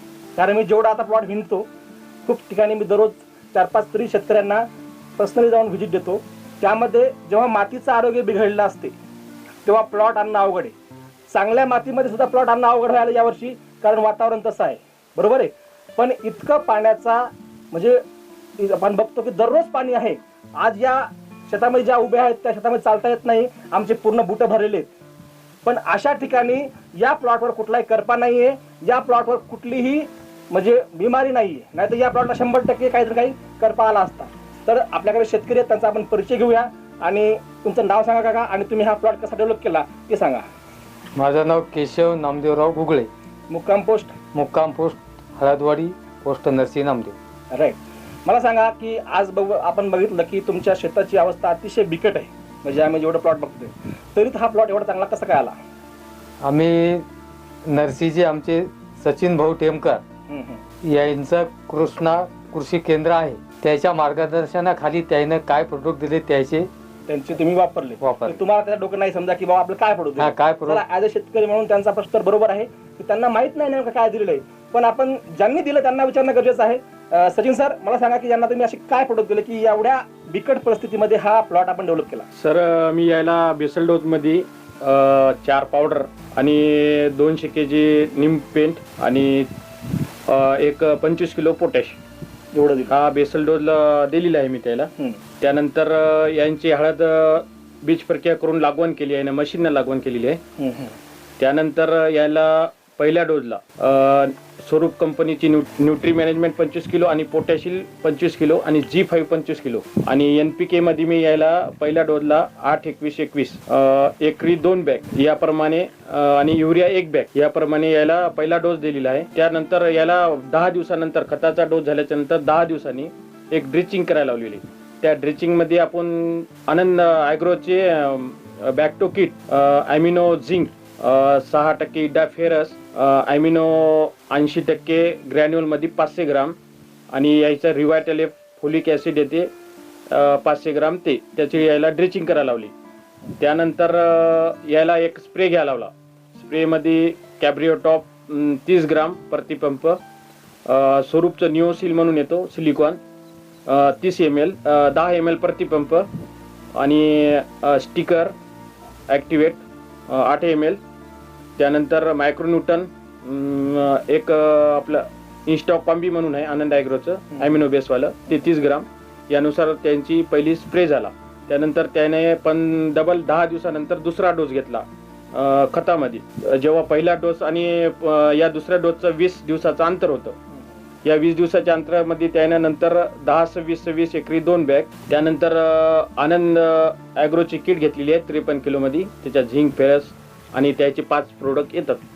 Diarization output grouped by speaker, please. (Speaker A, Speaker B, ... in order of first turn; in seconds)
Speaker A: 0.4-1.7, 2.2-4.7, 5.2-8.9, 9.7-10.8, 11.3-18.0, 18.6-24.9, 25.6-40.5, 43.5-44.1, 47.5-55.6, 60.3-60.6, 67.1-82.3, 92.5-92.9, 100.6-101.0
Speaker B: 41.2-43.1, 44.3-47.2, 56.4-57.1, 57.7-60.0, 60.8-66.7, 68.0-68.4, 70.2-70.8
Speaker C: 82.4-89.5, 90.3-92.0, 92.9-94.9, 95.4-100.4, 101.4-136.6, 137.1-139.5, 140.1-142.7, 143.4-150.0, 150.7-153.0, 153.7-156.1, 156.8-158.3, 159.1-160.8, 161.6-180.4, 181.0-192.0